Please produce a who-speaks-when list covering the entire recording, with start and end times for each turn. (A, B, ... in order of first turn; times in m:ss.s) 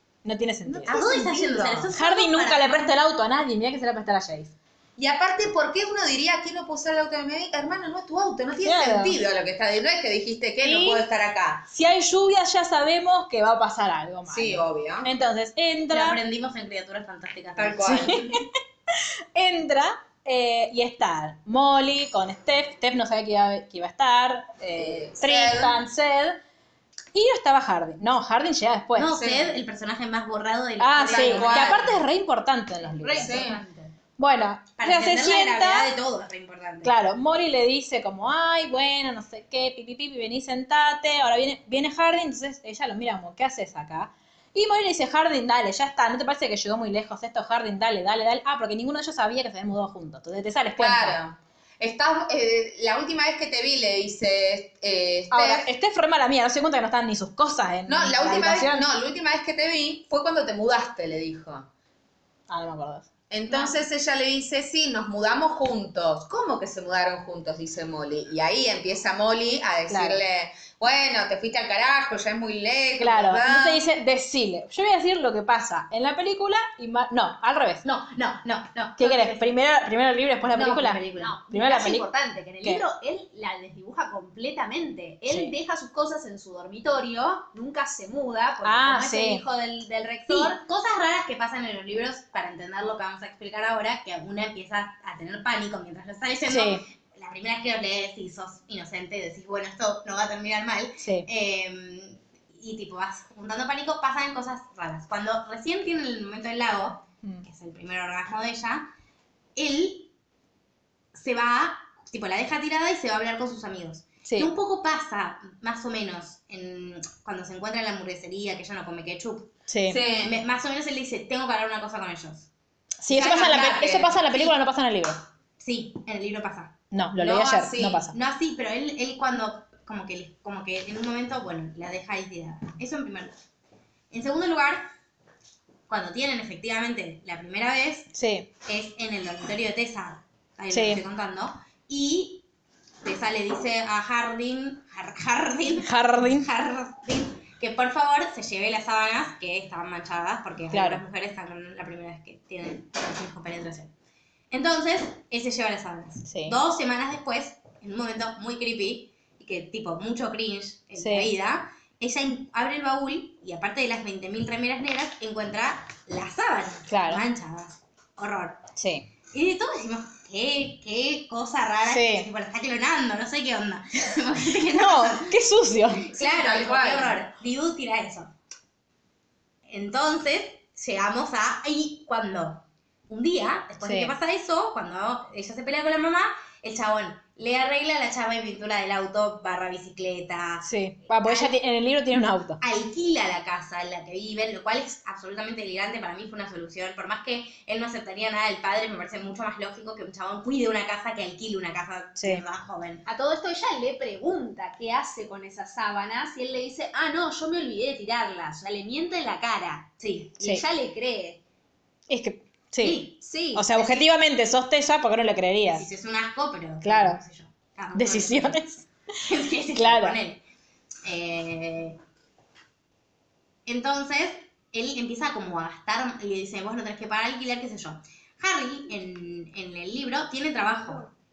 0:00.2-0:01.0 A
0:00.6-0:01.9 B
0:00.9-0:02.9 C
0:02.0-0:04.5 A
0:05.0-0:11.7 B
0:08.6-0:09.2 A
0:10.6-0:11.1 A
0:11.7-0:16.2 A
0:14.3-0:15.1 B
0:15.9-0:18.0 C
0:17.6-0:18.4 B
0:17.8-0:26.4 A
0:24.8-0:25.8 B
0:27.1-0:29.2 A
0:29.0-0:31.9 C
0:29.2-0:29.5 B
0:30.8-0:33.5 A
0:31.0-0:31.9 B
0:33.0-0:33.9 D
0:33.2-0:33.6 B
0:34.2-0:35.9 A
0:34.8-0:36.9 C
0:36.8-0:51.2 A
0:50.8-0:55.7 B
0:55.3-0:58.9 A
0:57.9-1:01.7 B
1:02.5-1:03.1 A
1:03.3-1:13.8 B
1:09.9-1:10.2 A
1:13.0-1:17.8 A
1:17.8-1:19.5 C
1:19.0-1:22.1 A
1:20.6-1:21.3 C
1:20.8-1:30.6 D
1:25.3-1:25.6 A
1:28.6-1:29.4 A
1:30.3-1:48.9 C
1:36.5-1:36.8 A
1:41.0-1:41.3 A
1:49.6-1:50.1 C
1:51.1-1:59.5 C
1:54.2-1:54.5 A
1:59.7-2:00.0 A
1:59.9-2:00.4 B
2:00.2-2:02.5 C
2:03.0-2:05.2 A
2:03.1-2:04.2 B
2:03.2-2:04.5 C
2:05.6-2:06.7 C
2:06.9-2:08.2 A
2:07.2-2:08.1 B
2:08.1-2:13.4 C
2:14.1-2:14.9 C
2:15.9-2:18.1 C
2:18.1-2:18.5 A
2:18.7-2:22.4 C
2:20.7-2:21.0 A
2:23.0-2:33.9 C
2:25.8-2:26.5 A
2:30.7-2:31.0 A
2:34.5-2:48.6 C
2:36.3-2:36.6 A
2:41.0-2:41.3 A
2:46.9-2:47.2 A
2:48.8-2:49.1 A
2:49.3-2:55.4 C
2:51.9-2:52.3 A
2:54.7-2:56.0 A
2:56.1-2:58.3 C
2:56.1-2:57.2 B
2:59.7-3:11.5 C
3:03.8-3:04.1 A
3:10.6-3:12.6 A
3:12.6-3:23.1 C
3:22.2-3:22.4 A
3:23.1-3:31.4 D
3:30.0-3:30.4 C
3:32.1-3:35.9 A
3:32.8-3:33.1 C
3:33.1-3:34.1 D
3:35.8-3:38.6 C
3:36.8-3:37.2 A
3:38.0-3:38.8 A
3:39.2-3:40.4 C
3:39.7-3:40.2 A
3:41.0-3:42.0 C
3:43.7-3:51.1 C